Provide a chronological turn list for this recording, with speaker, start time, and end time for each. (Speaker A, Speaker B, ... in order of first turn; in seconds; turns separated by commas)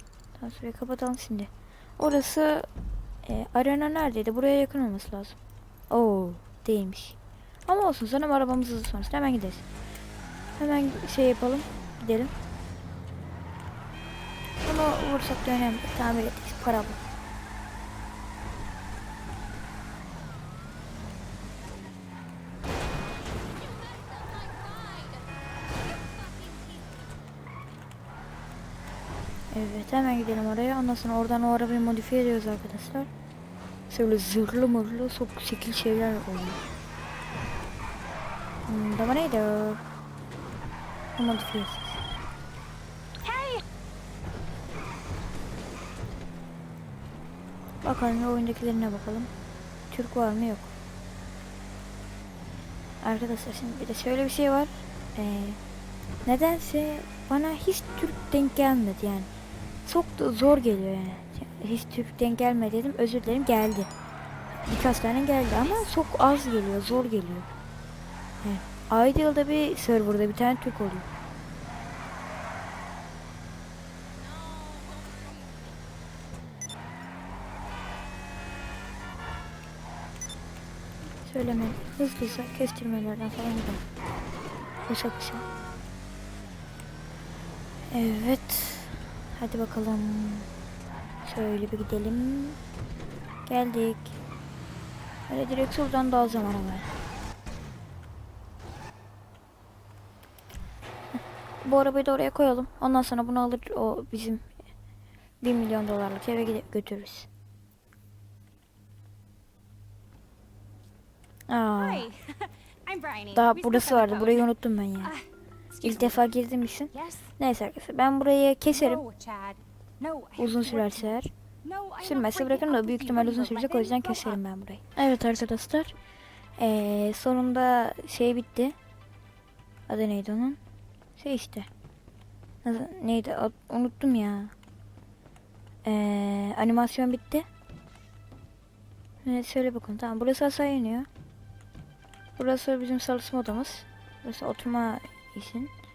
Speaker A: 0.4-2.7, Speaker A: 3.2-5.4, Speaker A: 5.9-9.6, Speaker A: 10.6-12.3, Speaker A: 14.6-17.0, Speaker B: 23.5-27.0, Speaker A: 29.5-33.1, Speaker A: 33.9-36.6, Speaker A: 38.7-39.8, Speaker A: 41.1-42.1, Speaker B: 43.2-43.6, Speaker A: 47.8-49.3, Speaker A: 49.9-50.7, Speaker A: 53.0-55.6, Speaker A: 56.3-59.3, Speaker A: 59.9-63.9, Speaker A: 64.6-67.5, Speaker A: 68.4-71.1, Speaker A: 81.2-83.8, Speaker A: 84.9-85.5, Speaker A: 87.9-90.5, Speaker A: 91.2-92.6, Speaker A: 93.5-94.2, Speaker A: 95.3-96.9, Speaker A: 101.1-104.5, Speaker A: 105.4-107.3, Speaker A: 111.5-112.1, Speaker B: 111.7-114.5, Speaker A: 113.3-115.1, Speaker B: 115.0-116.2, Speaker A: 115.8-119.0, Speaker B: 116.9-117.3, Speaker B: 118.7-124.4, Speaker A: 120.4-121.3, Speaker A: 122.0-125.9, Speaker A: 126.6-128.8, Speaker A: 129.9-130.6, Speaker A: 131.2-131.7, Speaker A: 132.6-134.5, Speaker A: 135.8-137.5, Speaker A: 139.2-141.1, Speaker A: 142.4-145.7